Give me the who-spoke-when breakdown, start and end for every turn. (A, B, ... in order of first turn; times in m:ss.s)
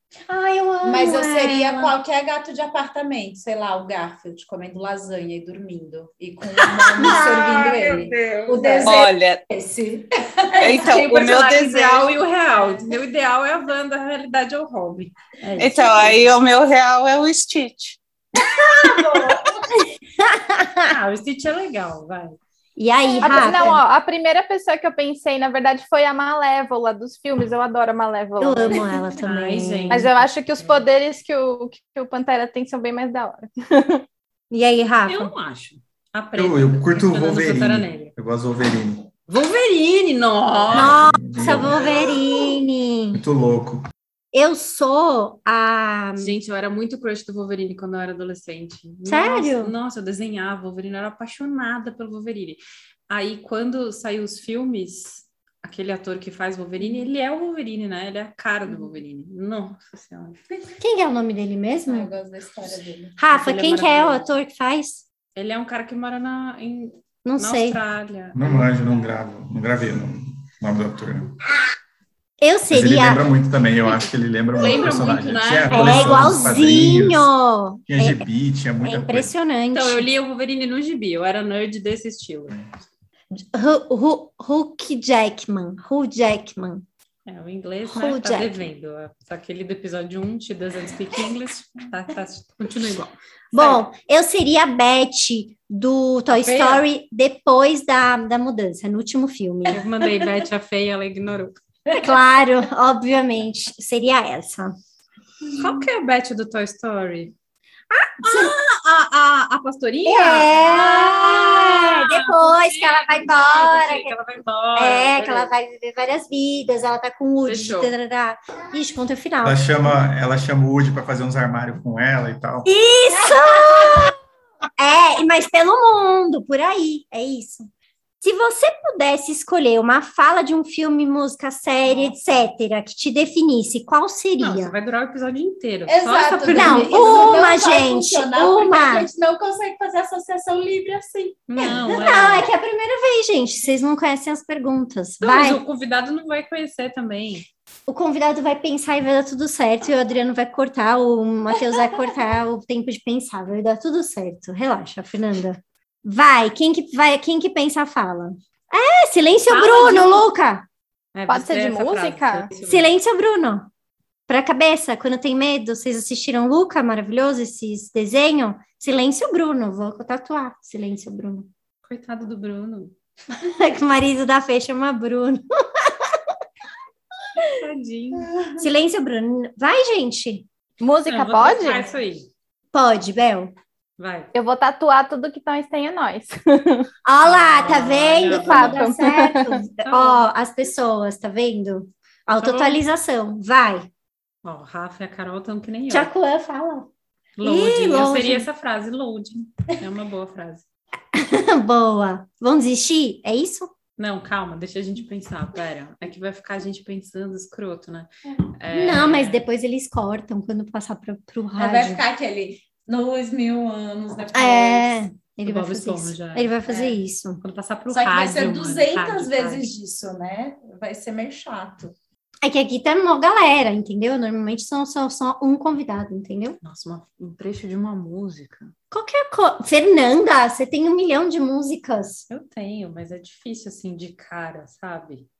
0:00.3-0:02.0 A
0:00.8-0:11.3 B
0:06.9-0:09.4 C
0:07.0-0:07.4 A
0:10.6-0:12.1 C
0:10.9-0:16.2 D
0:15.6-0:18.0 C
0:18.8-0:19.4 B
0:20.2-0:20.9 A
0:20.9-0:22.4 D
0:22.8-0:23.8 A
0:23.2-0:28.9 E
0:28.4-0:30.1 A
0:29.2-0:30.8 D
0:29.9-0:34.0 E
0:34.5-0:35.3 A
0:35.1-0:38.1 D
0:36.4-0:39.1 F
0:39.3-0:41.0 D
0:40.7-0:43.2 A
0:40.7-0:42.2 F
0:43.1-0:43.8 F
0:44.3-0:46.3 A
0:46.2-1:00.4 D
0:49.0-0:49.7 A
1:00.8-1:02.1 A
1:01.9-1:03.2 B
1:03.2-1:05.0 A
1:03.3-1:04.3 D
1:05.3-1:08.9 D
1:07.2-1:07.8 A
1:08.3-1:11.4 F
1:12.4-1:13.2 A
1:12.7-1:17.3 F
1:14.6-1:16.6 D
1:15.7-1:18.3 A
1:17.9-1:19.3 F
1:18.8-1:20.1 A
1:19.7-1:22.6 D
1:23.3-1:26.8 A
1:27.3-1:33.8 D
1:27.9-1:28.6 A
1:33.5-1:39.8 A
1:36.3-1:36.8 D
1:39.7-1:41.6 D
1:41.9-1:44.8 A
1:45.6-1:47.3 D
1:47.9-1:48.5 A
1:48.2-1:55.5 D
1:50.0-1:54.1 A
1:54.8-2:00.0 A
1:57.4-1:57.9 D
1:59.4-2:02.7 F
2:02.6-2:04.1 A
2:04.8-2:07.7 A
2:08.2-2:14.7 A
2:14.4-2:17.4 D
2:15.9-2:21.7 B
2:16.5-2:19.1 A
2:21.5-2:22.5 D
2:21.6-2:25.6 A
2:25.2-2:27.4 D
2:27.9-2:40.7 A
2:39.5-2:40.2 D
2:41.1-2:42.9 D
2:41.3-2:42.5 E
2:42.6-2:43.7 A
2:44.3-2:51.5 A
2:51.8-2:52.9 D
2:53.4-2:56.2 A
2:57.5-2:58.3 D
2:58.6-3:00.4 A
3:00.8-3:01.9 E
3:01.0-3:02.3 D
3:02.7-3:03.5 A
3:04.0-3:04.3 D
3:04.3-3:06.9 E
3:07.0-3:13.9 A
3:07.2-3:09.0 D
3:08.5-3:09.6 E
3:09.8-3:10.2 D
3:12.4-3:12.8 D
3:14.4-3:16.1 D
3:15.9-3:16.9 A
3:17.4-3:20.6 D
3:17.4-3:18.5 A
3:21.1-3:23.7 A
3:24.0-3:29.4 D
3:28.7-3:32.0 A
3:31.6-3:34.9 B
3:34.3-3:37.4 A
3:35.4-3:39.7 D
3:37.9-3:41.9 B
3:42.4-3:46.6 A
3:46.6-3:48.7 D
3:48.9-3:52.2 A
3:52.3-3:55.3 D